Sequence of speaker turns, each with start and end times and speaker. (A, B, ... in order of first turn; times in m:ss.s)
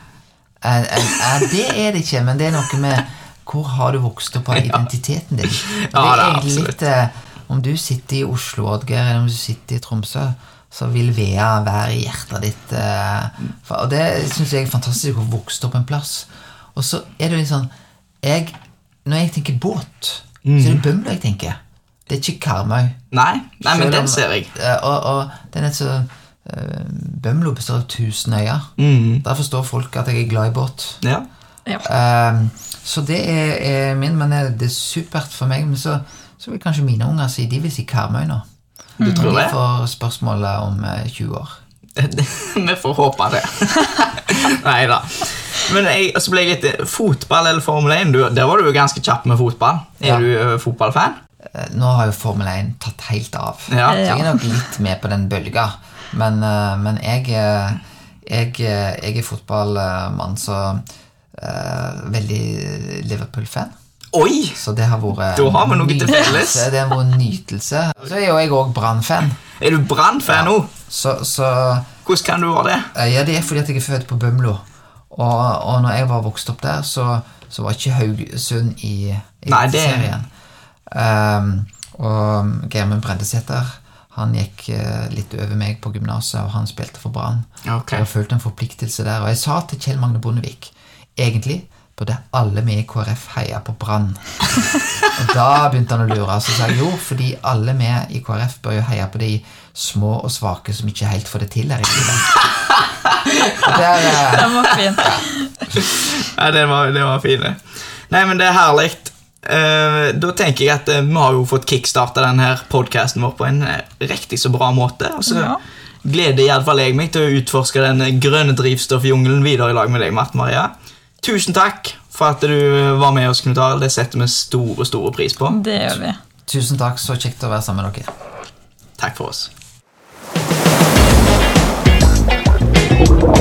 0:00.6-0:17.7 A
0:04.5-0:04.8 B
0:05.5-0:06.7 B
0:18.2-0:23.0 A
0:20.4-0:20.8 B
0:23.1-0:24.5 B
0:23.6-0:31.0 A
0:28.8-0:29.2 B
0:31.8-0:38.4 A
0:39.0-0:39.3 C
0:39.0-0:39.6 B
0:39.0-0:41.6 A
0:42.0-0:51.2 B
0:51.5-1:03.7 A
0:53.7-0:54.1 B
0:53.9-0:54.5 C
1:04.1-1:04.6 B
1:04.6-1:09.4 A
1:05.4-1:06.7 B
1:09.6-1:10.7 B
1:10.2-1:11.9 A
1:12.1-1:12.9 B
1:12.9-1:20.3 A
1:19.5-1:20.1 B
1:20.9-1:34.5 A
1:27.7-1:28.0 B
1:35.1-1:42.4 A
1:42.4-1:44.4 B
1:43.6-1:45.2 A
1:44.3-1:45.7 C
1:45.7-2:05.6 B
1:55.3-1:55.6 C
2:05.5-2:06.2 C
2:06.5-2:08.1 A
2:09.0-2:09.5 B